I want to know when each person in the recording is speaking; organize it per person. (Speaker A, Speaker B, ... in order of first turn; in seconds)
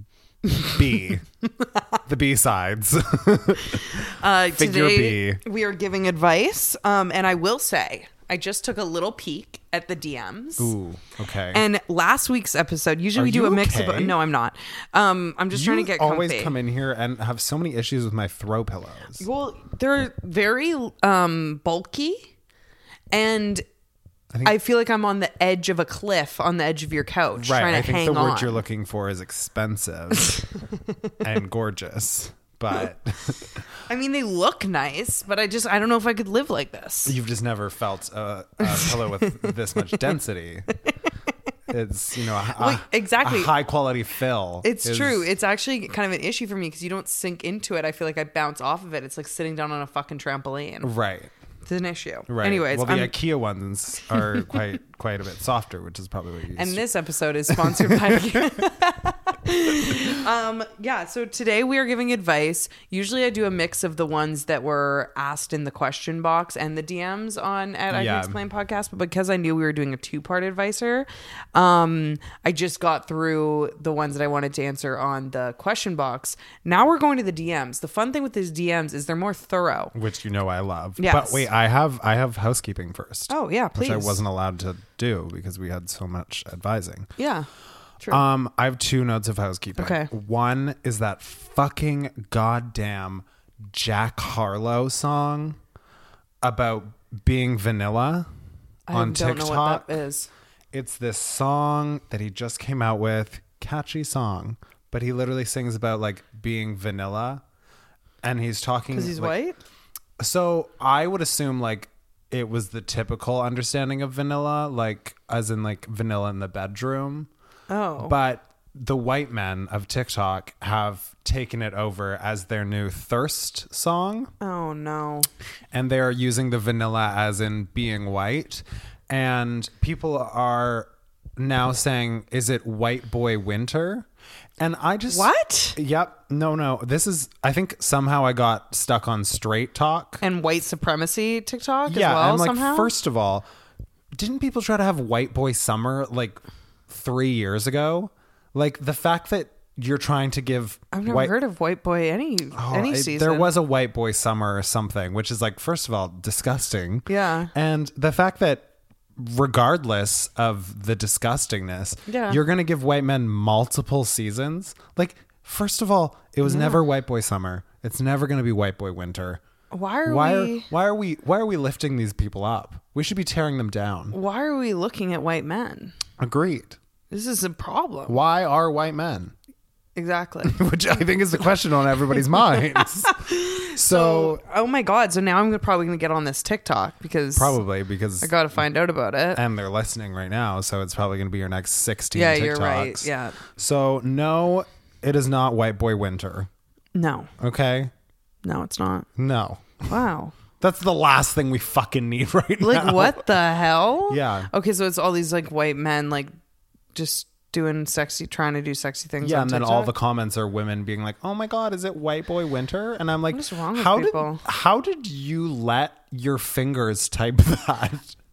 Speaker A: 0.6-1.2, 2.1-4.1, 4.6-5.4, 10.6-11.6, 13.2-14.2, 15.5-19.3, 27.4-30.4, 31.2-33.6, 37.1-40.7, 41.7-45.3, 50.8-51.3, 52.3-56.8, 57.5-58.6, 67.9-68.4, 79.9-87.1, 88.1-95.6, 96.4-98.3, 98.9-99.9, 100.7-107.4, 108.2-109.4, 110.2-117.3, 118.0-124.3, 125.7-134.1, 134.6-140.2, 141.9-143.4, 144.2-151.3, 152.6-169.4, 170.1-174.2, 176.2-176.8, 178.1-179.3, 180.4-184.4, 187.4-188.3, 189.3-196.5, 197.4-197.9, 199.2-199.9, 200.6-203.2, 204.1-204.5, 209.2-218.2
Speaker B: 3.9-10.7, 11.5-16.6, 19.2-22.3, 23.1-23.6, 24.4-28.6, 33.9-37.1, 38.7-39.5, 42.5-43.5, 44.6-50.9, 51.7-53.1, 56.5-79.9, 81.0-81.5, 83.3-84.2, 87.2-87.5, 89.8-90.1, 98.9-100.3, 108.9-109.6, 117.7-118.2, 124.4-125.3, 135.1-135.8, 140.2-142.9, 150.9-153.5, 157.1-157.5, 162.1-162.4, 166.4-166.8, 169.7-170.7, 174.1-175.9, 177.1-178.2, 180.0-180.6, 183.0-187.6, 188.2-189.4, 192.1-193.4, 196.9-197.3, 198.4-199.1, 199.9-200.3, 202.6-206.3, 206.9-209.9, 213.3-214.4